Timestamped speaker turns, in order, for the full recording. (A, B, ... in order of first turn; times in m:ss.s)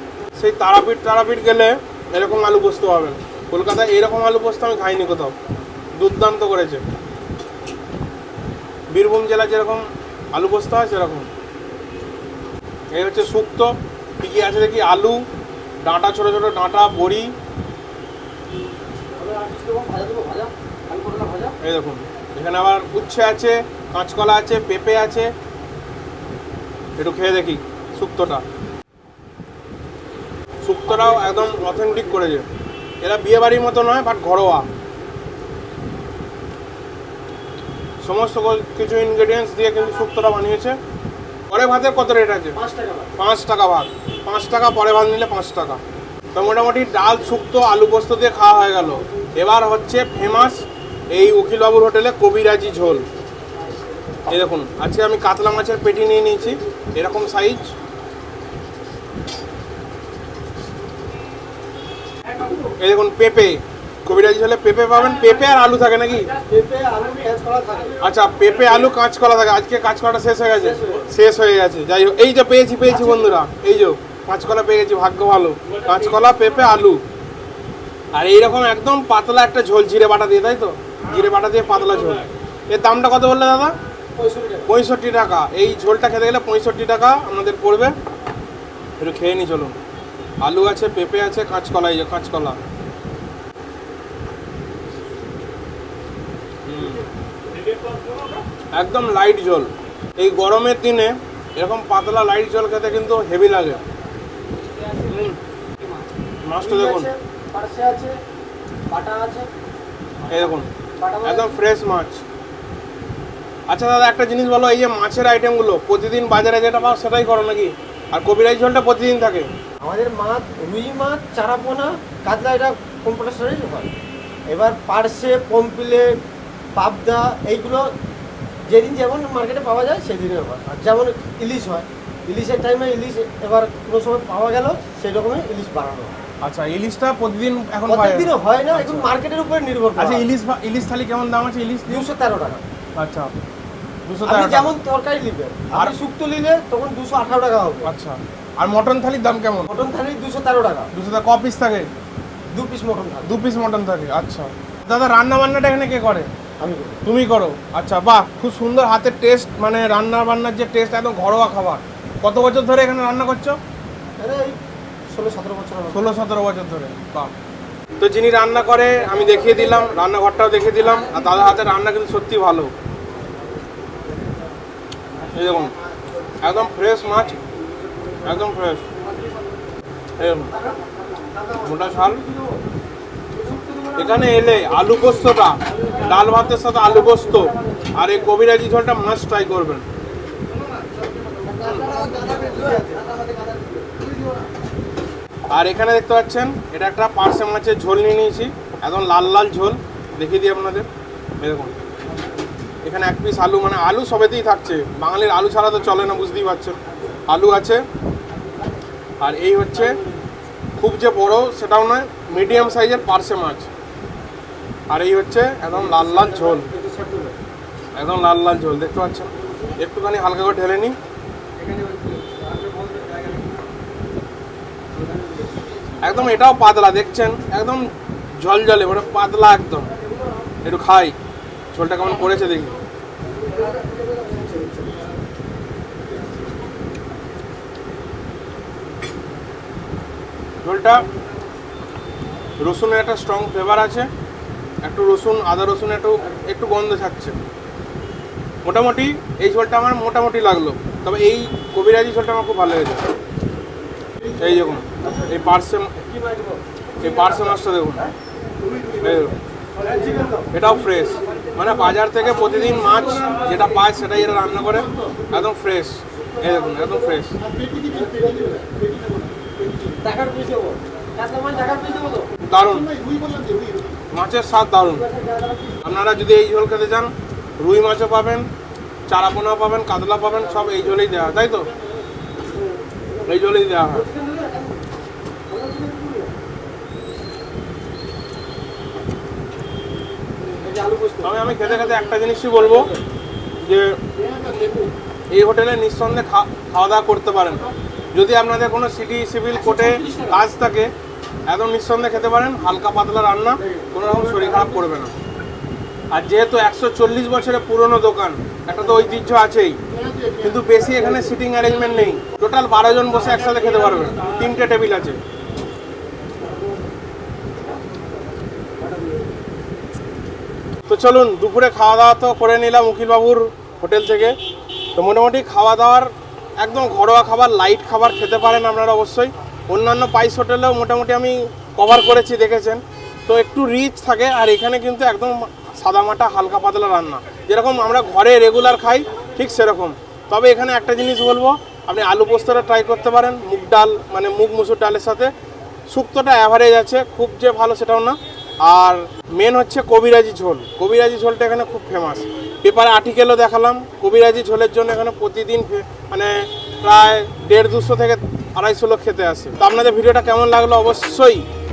0:00.4-0:05.3 A
0:06.0-0:06.8 A
0:08.9-0:09.8 A
0:10.3-0:11.3 A
0:12.9-0:13.7 A
0:14.2-0:15.2 A
0:15.8-0:17.3 A
0:19.2-0:21.6 B
0:21.6-0:25.3 A
0:27.0-0:28.4 A
0:30.6-0:32.5 A
0:33.0-0:34.6 A
0:38.0-0:40.8 A
0:41.5-0:42.6 A
0:42.6-0:43.1 B
0:43.2-0:45.8 A
0:46.3-0:50.6 A
0:51.1-0:53.0 A
0:54.3-0:57.7 A
1:02.8-1:06.3 A
1:06.4-1:08.0 B
1:08.0-1:17.0 A
1:10.5-1:11.1 B
1:12.9-1:13.3 B
1:18.1-1:23.7 A
1:24.2-1:24.7 B
1:24.7-1:27.9 A
1:29.0-1:29.8 A
1:30.4-1:32.6 A
1:36.7-1:37.0 A
1:38.8-1:43.8 A
1:45.1-1:45.4 A
1:46.5-1:47.1 A
1:46.6-1:48.2 B
1:48.9-1:49.5 B
1:50.3-1:50.7 A
1:50.3-1:51.6 B
1:51.2-1:52.2 A
1:53.7-1:59.5 A
1:59.8-2:04.0 B
2:04.5-2:06.1 B
2:06.8-2:07.9 B
2:08.7-2:16.1 B
2:16.4-2:19.1 A
2:17.9-2:20.3 B
2:20.0-2:22.1 A
2:21.9-2:22.6 B
2:23.0-2:23.3 A
2:24.1-2:24.7 A
2:24.2-2:27.9 B
2:27.8-2:29.7 A
2:29.7-2:30.9 B
2:30.9-2:31.9 A
2:32.5-2:33.3 B
2:33.3-2:36.3 A
2:36.6-2:37.0 B
2:37.0-2:43.6 A
2:44.2-2:44.6 B
2:45.1-2:46.1 B
2:45.9-2:47.3 A
2:48.0-2:52.7 A
2:55.3-2:55.7 A
2:56.4-2:57.4 A
2:58.2-2:58.8 A
3:00.2-3:00.5 A
3:01.6-3:02.2 A
3:03.5-3:04.0 B
3:04.0-3:09.8 A
3:11.6-3:13.2 B
3:15.5-3:20.9 A
3:21.4-3:21.7 A
3:22.8-3:26.8 A
3:27.3-3:27.8 A
3:29.2-3:30.0 A
3:30.8-3:33.7 A
3:34.9-3:36.7 A
3:35.8-3:37.4 B
3:38.0-3:40.9 A
3:41.6-3:43.4 B
3:46.0-3:47.8 A
3:48.4-3:49.9 A
3:50.6-3:51.2 A
3:51.7-3:52.7 A
4:00.6-4:01.0 A
4:02.6-4:04.1 A
4:04.8-4:07.4 A
4:08.6-4:13.0 A
4:14.4-4:16.0 A
4:16.2-4:16.6 B
4:17.0-4:18.1 A
4:19.0-4:19.3 A
4:19.8-4:20.5 B
4:20.5-4:27.4 A
4:27.6-4:29.1 B
4:29.7-4:32.3 B
4:32.5-4:32.9 A
4:33.2-4:33.5 B
4:34.1-4:35.1 A
4:35.0-4:35.8 B
4:35.8-4:38.4 A
4:39.1-4:41.7 A
4:43.3-4:44.1 A
4:43.9-4:44.8 B
4:45.5-4:46.3 B
4:50.5-4:51.4 B
4:51.2-4:52.9 A
4:53.6-4:54.0 A
4:55.3-5:00.9 A
4:59.8-5:00.3 B
5:01.5-5:05.1 A
5:06.1-5:09.8 A
5:10.4-5:15.2 A
5:20.9-5:24.4 A
5:25.0-5:26.1 A
5:26.6-5:45.3 A
5:45.9-6:01.4 A